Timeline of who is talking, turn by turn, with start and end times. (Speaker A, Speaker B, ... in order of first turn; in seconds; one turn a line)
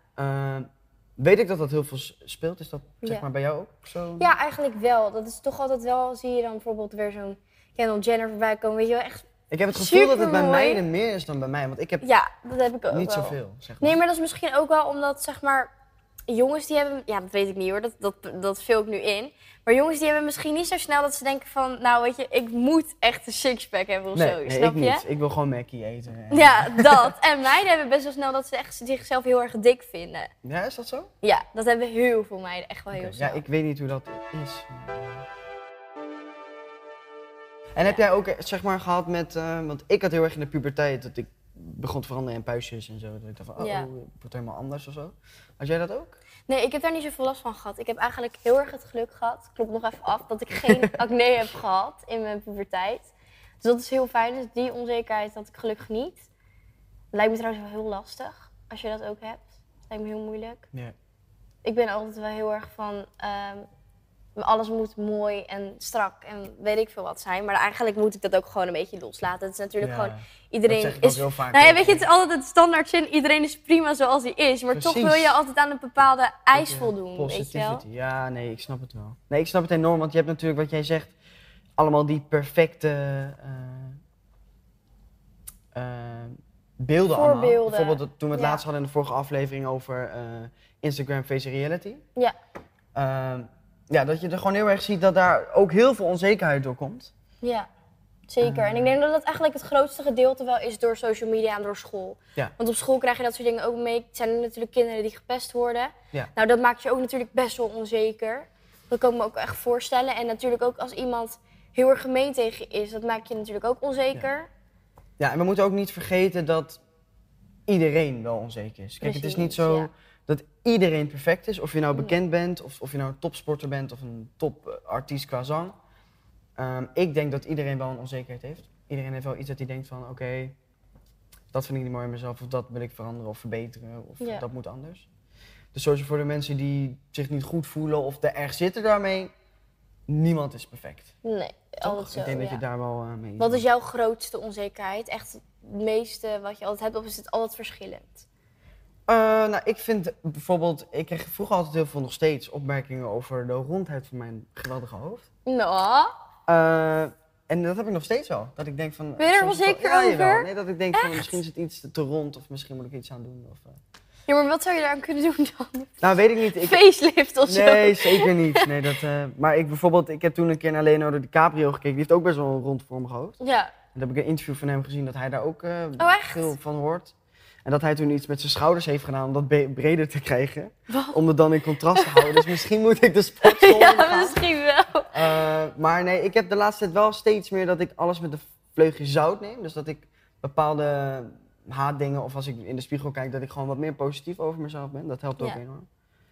Speaker A: 0.2-4.3
Speaker B: 4.2-10.8
Speaker A: 9.5-12.1
Speaker B: 12.0-15.7
Speaker A: 12.9-14.0
Speaker B: 16.3-25.0
Speaker A: 24.1-27.1
Speaker B: 26.3-30.3
Speaker A: 30.4-31.1
Speaker B: 31.2-33.4
Speaker A: 32.9-35.2
Speaker A: 37.8-46.2
Speaker B: 43.6-43.9
Speaker B: 46.5-56.3
Speaker B: 57.1-60.6
Speaker B: 61.6-63.7
Speaker B: 64.4-77.8
Speaker A: 69.8-72.1
Speaker A: 74.7-75.4
Speaker A: 76.5-81.2
Speaker A: 81.8-84.0
Speaker A: 85.7-92.0
Speaker B: 87.1-88.6
Speaker A: 93.0-97.1
Speaker B: 97.4-97.7
Speaker B: 98.3-114.5
Speaker A: 98.4-99.0
Speaker A: 115.2-116.8
Speaker A: 117.7-125.8
Speaker B: 119.0-119.9
Speaker A: 126.6-130.6
Speaker A: 131.5-135.1
Speaker B: 134.2-134.4
Speaker A: 135.7-139.3
Speaker A: 140.1-141.1
Speaker B: 141.2-142.6
Speaker A: 141.8-143.7
Speaker B: 143.4-148.3
Speaker A: 149.1-155.3
Speaker B: 155.5-156.1
Speaker A: 156.5-163.8
Speaker B: 159.2-161.3
Speaker B: 164.3-168.9
Speaker A: 166.0-166.8
Speaker A: 167.4-173.4
Speaker B: 173.4-173.7
Speaker A: 173.9-177.1
Speaker B: 176.0-176.5
Speaker A: 177.7-184.4
Speaker B: 180.9-181.2
Speaker B: 181.9-182.5
Speaker B: 183.4-185.4
Speaker A: 185.1-195.9